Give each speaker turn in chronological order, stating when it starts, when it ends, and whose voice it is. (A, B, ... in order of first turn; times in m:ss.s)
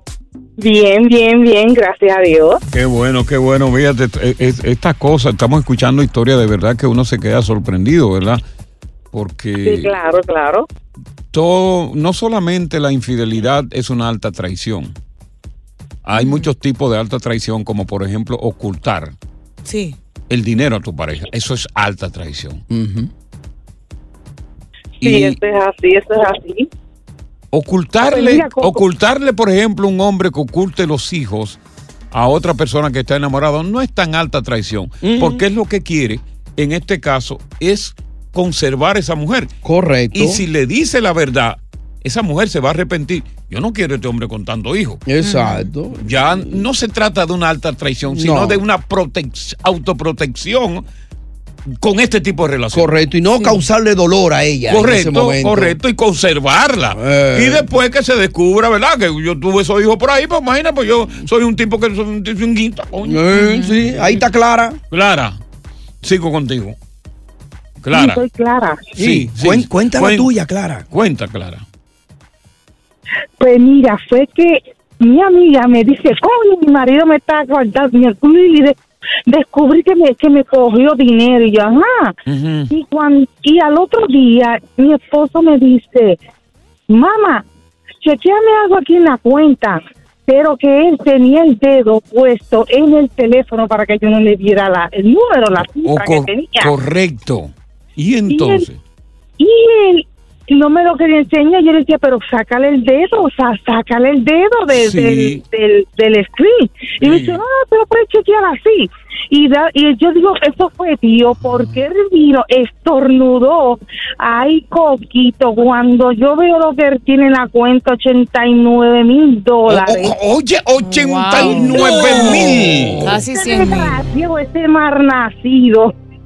0:00.6-0:02.6 A
0:02.7-0:08.4 B
0:09.1-0:10.0 B
0:09.6-0:10.7 A
0:11.3-0:15.0 B
0:16.0-0:19.2 B
0:16.1-0:16.5 C
0:19.6-0:20.0 C
0:20.3-0:22.6 B
0:22.7-0:23.1 D
0:25.0-0:25.4 B
0:25.4-0:26.6 A
0:27.5-0:31.6 B
0:28.0-0:28.8 A
0:32.1-0:39.5 B
0:35.0-0:35.4 D
0:39.6-0:40.4 D
0:40.1-0:45.0 B
0:45.0-0:46.6 D
0:45.2-0:45.7 C
0:46.0-0:50.8 B
0:48.0-0:48.6 D
0:51.7-0:52.9 B
0:52.7-0:55.8 D
0:54.7-1:03.2 B
0:56.9-0:57.6 D
1:03.0-1:04.8 D
1:03.4-1:03.7 C
1:04.9-1:05.4 B
1:06.0-1:06.8 B
1:07.8-1:08.2 B
1:07.9-1:08.9 A
1:09.0-1:10.3 B
1:09.0-1:10.8 D
1:10.9-1:11.6 B
1:13.4-1:22.2 A
1:22.3-1:22.7 B
1:22.7-1:26.2 A
1:26.9-1:27.4 A
1:28.0-1:36.7 A
1:35.8-1:38.8 B
1:38.3-1:38.6 A
1:39.4-2:00.1 A
1:44.7-1:45.4 B
1:47.0-1:47.4 B
1:51.3-1:51.8 B
1:59.7-2:03.2 B
2:00.8-2:01.9 C
2:01.4-2:03.1 D
2:01.8-2:02.4 A
2:03.0-2:04.0 C
2:03.2-2:05.9 A